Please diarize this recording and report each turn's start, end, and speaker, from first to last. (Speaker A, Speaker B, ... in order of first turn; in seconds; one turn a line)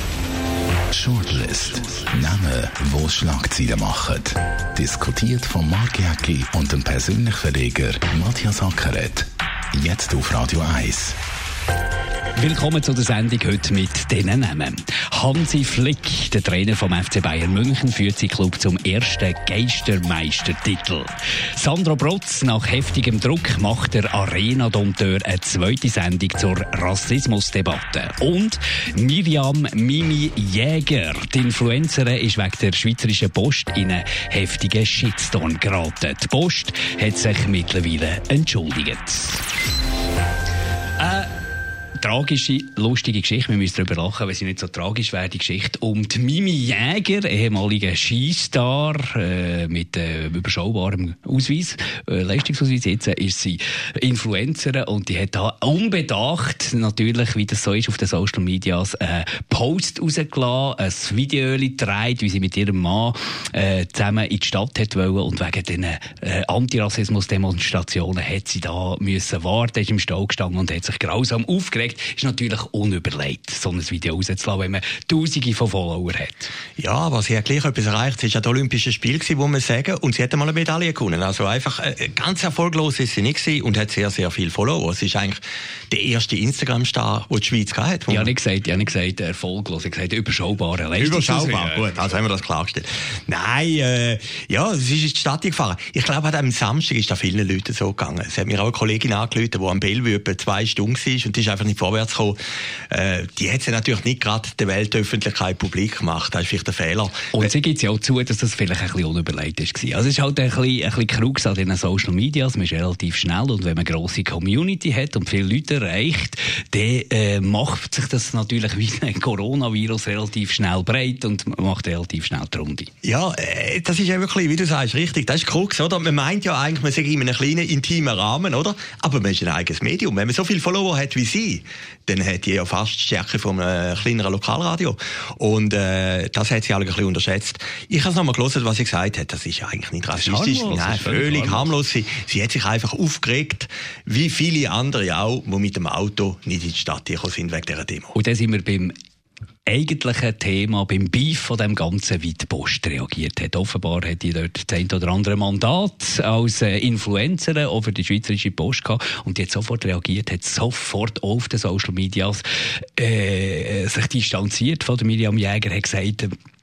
Speaker A: 0.9-11.2
Speaker B: 12.4-39.4
Speaker B: 41.0-41.3
Speaker B: 42.0-76.5
Speaker C: 76.8-88.3
Speaker B: 88.1-92.2
Speaker C: 91.0-102.4
Speaker C: 102.9-107.5
Speaker B: 107.3-122.9
Speaker C: 123.0-148.2
Speaker B: 140.2-141.7
Speaker B: 148.2-148.9
Speaker B: 149.7-162.4
Speaker B: 163.0-166.3